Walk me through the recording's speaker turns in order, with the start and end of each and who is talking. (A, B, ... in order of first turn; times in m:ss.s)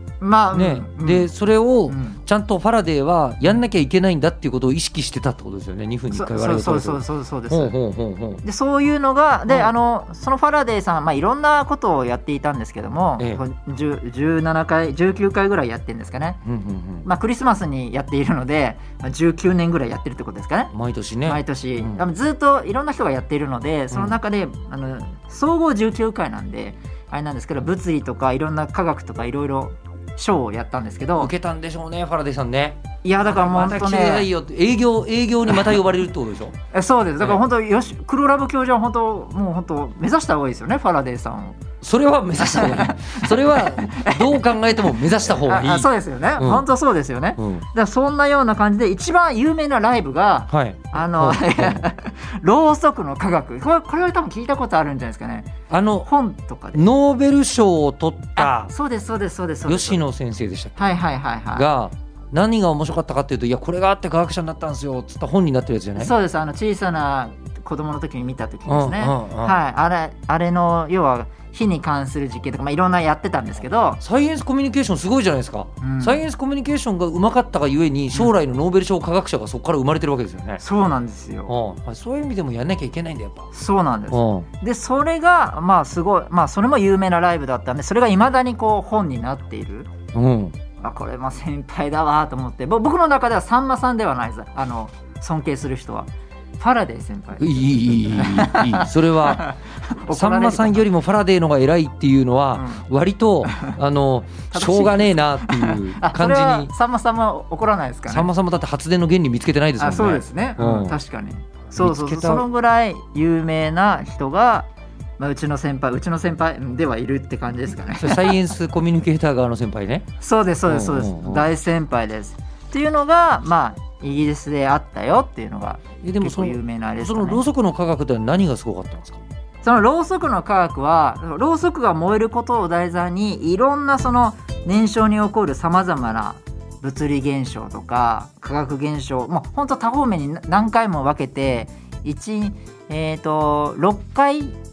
0:00.2-0:01.3 A
0:00.5-0:08.4 B
0:01.9-0:02.2 A
0:06.1-0:07.8 A
0:08.4-0:16.4 A
0:16.4-0:17.1 B
0:17.0-0:20.7 A
0:20.7-0:22.0 B
0:21.3-0:31.3 A
0:23.9-0:24.2 B
0:31.2-0:36.6 B
0:33.0-0:34.3 A
0:36.7-0:41.6 A
0:41.8-0:46.7 B
0:42.4-0:55.5 A
0:47.4-0:47.7 B
0:50.5-0:51.9 B
0:55.7-0:56.1 B
0:56.1-0:56.9 A
0:56.7-0:58.7 B
0:58.4-1:00.0 A
0:59.7-1:00.8 B
1:00.8-1:01.7 A
1:01.5-1:06.1 B
1:06.0-1:14.0 A
1:08.7-1:09.6 B
1:14.0-1:20.6 B
1:15.8-1:16.2 A
1:20.6-1:21.5 A
1:21.5-1:23.5 B
1:23.5-1:29.9 A
1:24.1-1:24.5 B
1:30.1-1:30.6 B
1:30.8-1:40.9 A
1:37.4-1:39.5 B
1:40.1-1:46.7 B
1:42.6-1:42.8 A
1:44.5-1:48.3 A
1:48.1-1:51.0 B
1:49.8-1:58.4 A
1:51.7-1:52.4 B
1:58.0-2:00.1 B
2:00.2-2:07.4 A
2:00.7-2:01.5 B
2:06.0-2:09.2 B
2:09.6-2:24.6 A